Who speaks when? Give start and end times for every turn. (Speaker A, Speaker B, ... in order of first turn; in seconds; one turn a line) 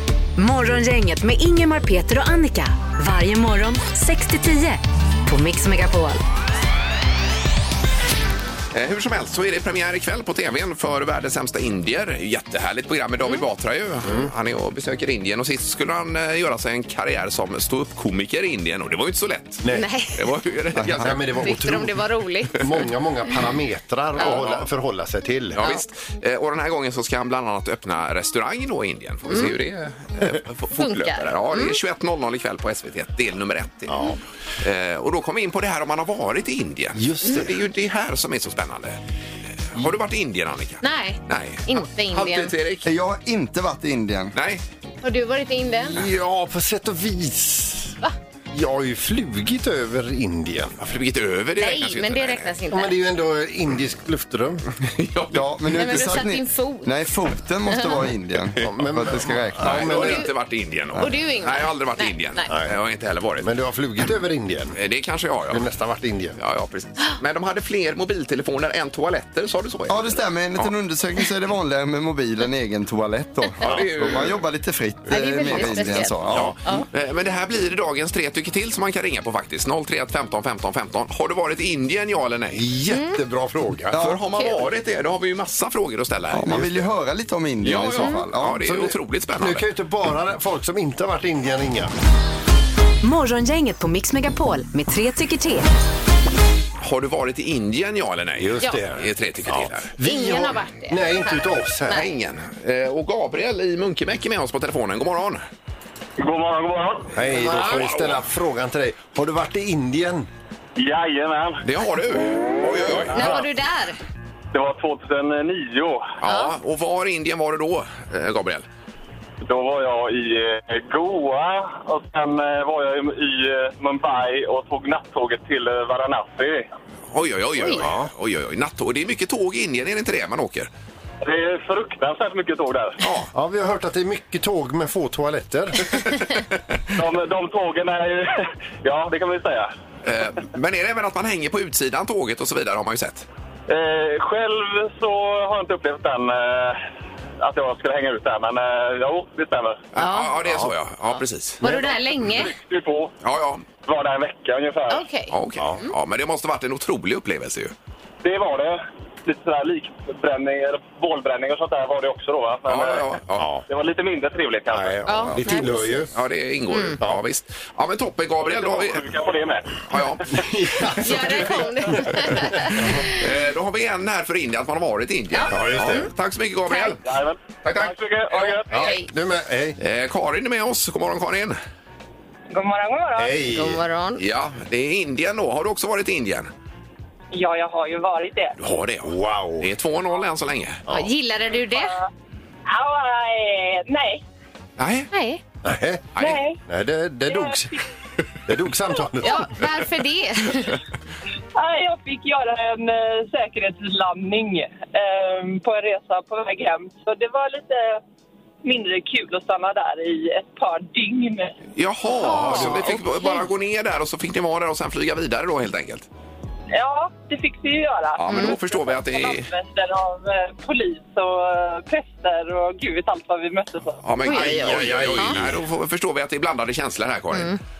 Speaker A: 0.4-6.2
Speaker B: 8.7-19.6
Speaker C: 14.0-14.3
Speaker D: 19.7-20.2
Speaker B: 20.1-21.3
Speaker E: 20.8-21.1
Speaker C: 21.0-25.6
Speaker D: 21.4-22.7
Speaker B: 24.2-24.7
Speaker B: 25.5-34.0
Speaker D: 25.6-25.8
Speaker D: 30.8-31.8
Speaker C: 33.9-34.2
Speaker B: 34.6-39.0
Speaker C: 36.9-37.5
Speaker B: 39.7-42.9
Speaker D: 40.8-42.5
Speaker E: 42.8-44.3
Speaker B: 44.3-44.6
Speaker D: 45.0-46.0
Speaker C: 45.9-47.9
Speaker C: 48.5-50.8
Speaker B: 50.8-52.5
Speaker D: 51.6-52.9
Speaker C: 52.7-54.6
Speaker B: 54.9-55.4
Speaker E: 55.3-60.0
Speaker D: 55.7-56.9
Speaker D: 57.7-58.0
Speaker C: 58.6-60.3
Speaker B: 59.6-63.5
Speaker D: 59.9-60.3
Speaker D: 61.0-62.5
Speaker C: 62.5-62.8
Speaker C: 63.4-64.8
Speaker B: 64.7-65.7
Speaker C: 65.5-66.4
Speaker B: 66.4-70.7
Speaker E: 69.9-76.6
Speaker B: 73.6-74.4
Speaker D: 75.1-76.8
Speaker B: 75.5-82.6
Speaker C: 82.5-84.0
Speaker D: 82.9-83.2
Speaker E: 83.9-84.2
Speaker B: 83.9-86.8
Speaker E: 86.3-88.6
Speaker B: 87.6-89.6
Speaker C: 88.6-91.9
Speaker A: 93.0-95.7
Speaker B: 96.8-99.9
Speaker C: 98.4-102.1
Speaker D: 100.0-102.1
Speaker B: 101.9-105.4
Speaker F: 106.2-107.1
Speaker C: 107.1-110.3
Speaker D: 107.4-107.8
Speaker B: 107.5-108.2
Speaker F: 110.8-111.6
Speaker B: 111.6-113.3
Speaker C: 113.1-113.4
Speaker D: 113.1-114.0
Speaker F: 114.5-116.1
Speaker B: 116.2-118.7
Speaker D: 116.2-116.5
Speaker F: 119.4-126.7
Speaker B: 127.1-130.7
Speaker C: 127.7-128.1
Speaker F: 131.2-133.0
Speaker B: 133.0-133.3
Speaker C: 133.3-136.1
Speaker F: 136.9-139.7
Speaker B: 140.0-143.2
Speaker F: 143.7-146.8
Speaker F: 147.4-149.8
Speaker B: 149.9-151.6
Speaker D: 150.0-150.3
Speaker C: 150.4-150.7
Speaker D: 151.6-152.5
Speaker F: 151.6-153.1
Speaker B: 153.2-153.6
Speaker F: 153.8-155.0
Speaker D: 154.9-155.9
Speaker B: 155.3-157.7
Speaker C: 155.6-155.8
Speaker F: 158.2-163.0
Speaker B: 162.7-163.5
Speaker C: 163.4-163.6
Speaker F: 163.7-165.0
Speaker C: 164.7-166.1
Speaker D: 165.1-165.9
Speaker B: 166.1-169.1
Speaker D: 166.7-167.0
Speaker F: 168.4-169.8
Speaker B: 169.9-171.4
Speaker C: 170.3-172.9
Speaker D: 171.0-173.1
Speaker B: 173.1-177.0
Speaker D: 175.3-176.1
Speaker C: 175.5-176.1
Speaker D: 176.7-176.9
Speaker F: 177.0-178.8
Speaker B: 177.6-178.6
Speaker C: 178.7-179.8
Speaker D: 178.8-179.1
Speaker B: 179.8-181.6
Speaker G: 182.5-183.4
Speaker C: 183.1-183.8
Speaker D: 183.5-184.2
Speaker B: 184.2-186.5
Speaker G: 187.3-188.6
Speaker B: 188.6-190.8
Speaker C: 189.0-189.7
Speaker D: 190.9-191.9
Speaker G: 191.7-192.1
Speaker G: 192.7-194.2
Speaker B: 194.8-195.1
Speaker D: 195.1-195.4
Speaker C: 195.6-197.8
Speaker B: 196.1-196.4
Speaker G: 196.2-196.6
Speaker G: 197.3-197.8
Speaker C: 198.5-199.5
Speaker D: 199.2-200.8
Speaker G: 201.5-208.0
Speaker G: 208.6-211.6
Speaker B: 211.8-216.1
Speaker D: 212.2-213.5
Speaker C: 212.4-212.9
Speaker G: 216.7-224.1
Speaker B: 218.2-219.5
Speaker D: 218.3-218.6
Speaker B: 224.0-227.6
Speaker D: 224.2-225.4
Speaker C: 224.3-225.6